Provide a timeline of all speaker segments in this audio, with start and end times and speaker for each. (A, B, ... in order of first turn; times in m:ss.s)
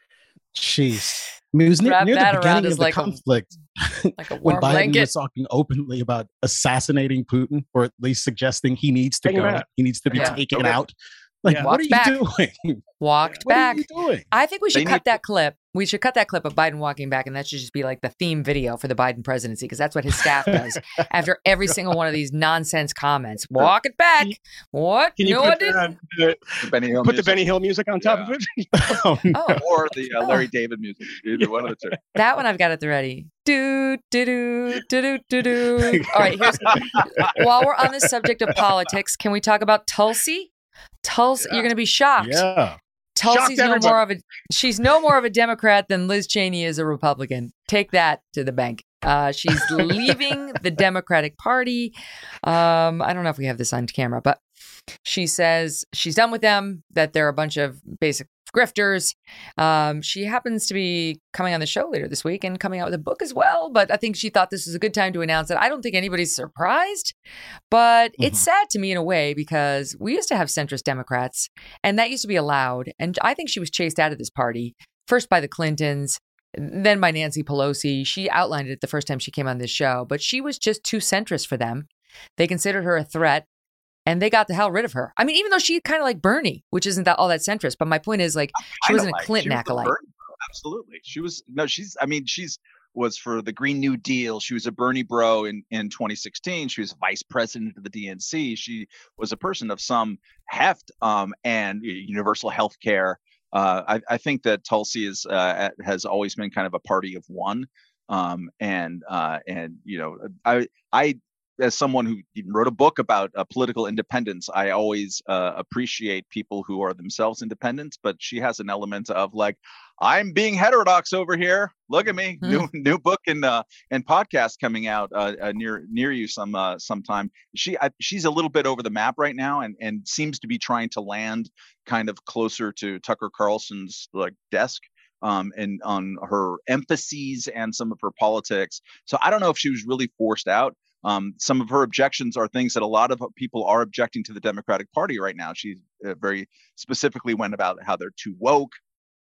0:00.5-0:12.8 A
0:01.8-0:03.2 B
0:04.2-0:05.1 B
0:09.2-0:09.6 C
0:10.1-0:10.4 B
0:10.3-0:10.8 D
0:11.4-0:11.7 C
0:11.5-0:12.2 B
0:13.0-0:25.8 B
0:13.4-0:14.2 A
0:14.7-0:15.2 D
0:20.4-0:20.7 A
0:25.2-0:26.4 C
0:26.6-0:27.4 D
0:27.0-0:28.7 C
0:28.0-0:28.3 D
0:28.7-0:29.6 A
0:29.3-0:29.6 B
0:29.6-0:32.0 D
0:32.1-0:40.5 B
0:35.8-0:37.3 A
0:41.0-0:42.4 B
0:42.2-0:42.8 A
0:43.2-0:54.4 B
0:43.2-0:44.0 C
0:55.0-1:07.1 B
1:07.7-1:21.9 B
1:08.2-1:08.4 A
1:22.4-1:23.4 B
1:24.1-1:29.9 B
1:28.8-2:28.7 D